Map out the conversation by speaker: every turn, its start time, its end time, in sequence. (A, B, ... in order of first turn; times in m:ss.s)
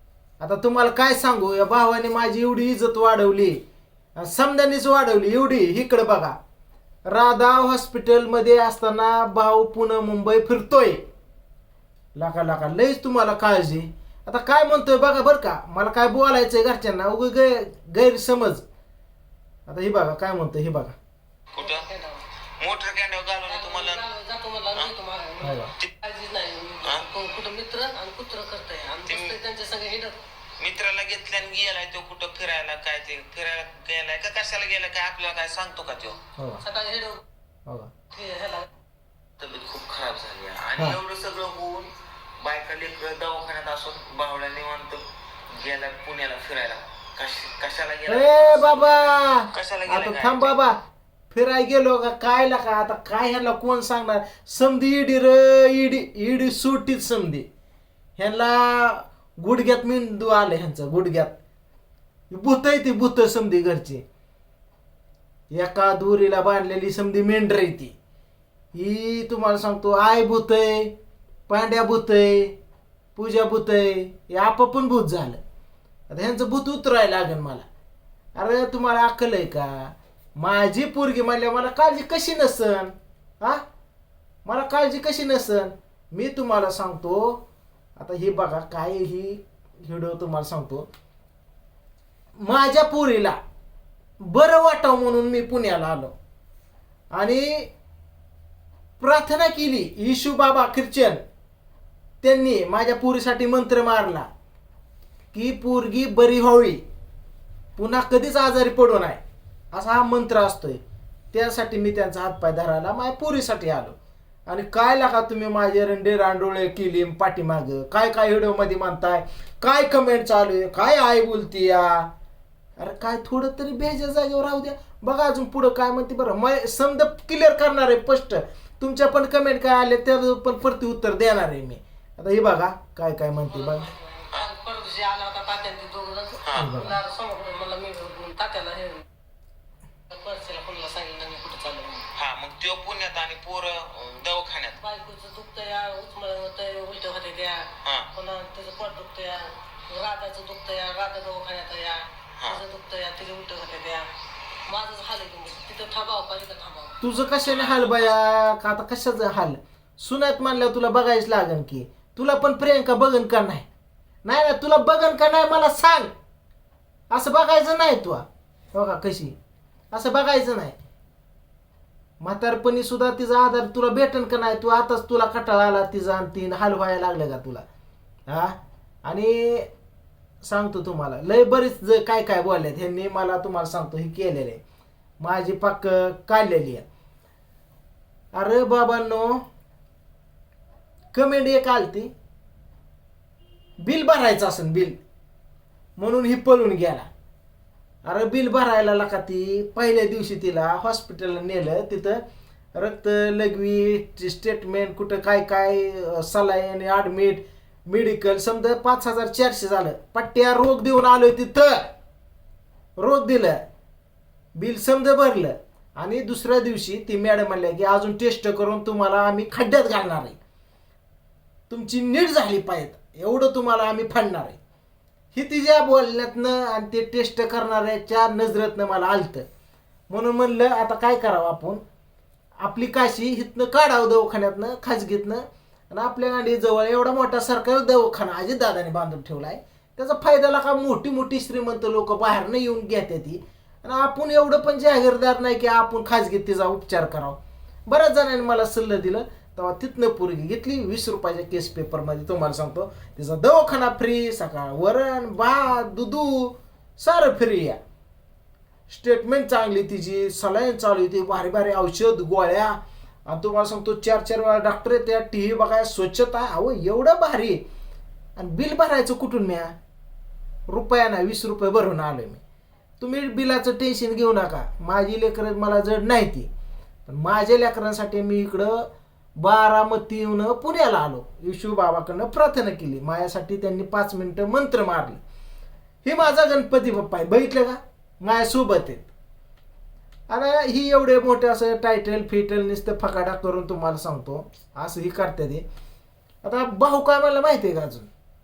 0:00.4-0:03.6 A
0:04.2-0:06.4 A
0:07.0-0:11.0 A
0:12.1-0:18.6 A
0:19.7-0:21.0 A
0:21.5-0:21.9 B
0:21.6-0:22.2 C
0:22.6-0:24.0 B
0:23.5-0:30.2 C
0:25.4-0:25.7 A
0:29.0-0:29.4 B
0:30.6-0:36.2 B
0:36.4-0:36.6 A
0:36.6-0:37.2 C
0:38.1-0:38.7 C
0:39.4-0:45.0 B
0:45.6-0:50.6 B
0:48.1-0:50.8 A
0:51.3-0:57.5 A
0:58.2-1:01.4 A
1:02.3-1:04.0 A
1:05.5-1:07.9 A
1:08.7-1:10.9 A
1:11.5-1:12.5 A
1:13.2-1:15.4 A
1:16.1-1:17.7 A
1:18.4-1:23.6 A
1:24.4-1:27.4 A
1:28.0-1:30.9 A
1:32.4-1:33.4 A
1:34.2-1:36.1 A
1:37.1-1:37.7 A
1:39.0-1:41.2 A
1:42.2-1:44.3 A
1:45.3-1:46.8 A
1:47.8-1:49.2 A
1:49.7-1:50.8 A
1:51.3-1:53.9 A
1:54.5-2:02.1 A
2:02.8-2:13.8 A
2:13.5-2:19.0 C
2:16.4-2:16.8 B
2:16.5-2:17.0 A
2:20.1-2:22.0 C
2:22.1-2:24.8 B
2:24.8-2:34.0 C
2:34.7-2:37.0 C
2:37.0-2:43.6 A
2:37.4-2:38.2 B
2:44.2-2:46.1 A
2:47.1-2:49.3 A
2:49.9-2:50.8 A
2:52.2-2:57.6 A
2:58.3-2:59.7 A
3:00.4-3:04.6 A
3:05.2-3:06.8 A
3:08.3-3:09.4 A
3:11.1-3:12.1 A
3:13.8-3:15.0 A
3:16.0-3:17.1 A
3:18.0-3:22.2 A
3:22.7-3:31.9 A
3:33.0-3:33.6 A
3:34.6-3:40.4 A
3:41.7-3:44.6 A
3:45.3-3:49.4 A
3:50.1-3:51.8 A
3:52.6-4:17.8 A
4:18.9-4:27.6 A
4:28.4-4:29.7 A
4:30.7-4:32.4 A
4:33.0-4:36.5 A
4:37.0-4:38.9 A
4:39.4-4:45.2 A
4:46.0-4:49.1 A
4:50.3-4:55.6 A
4:56.4-4:58.1 A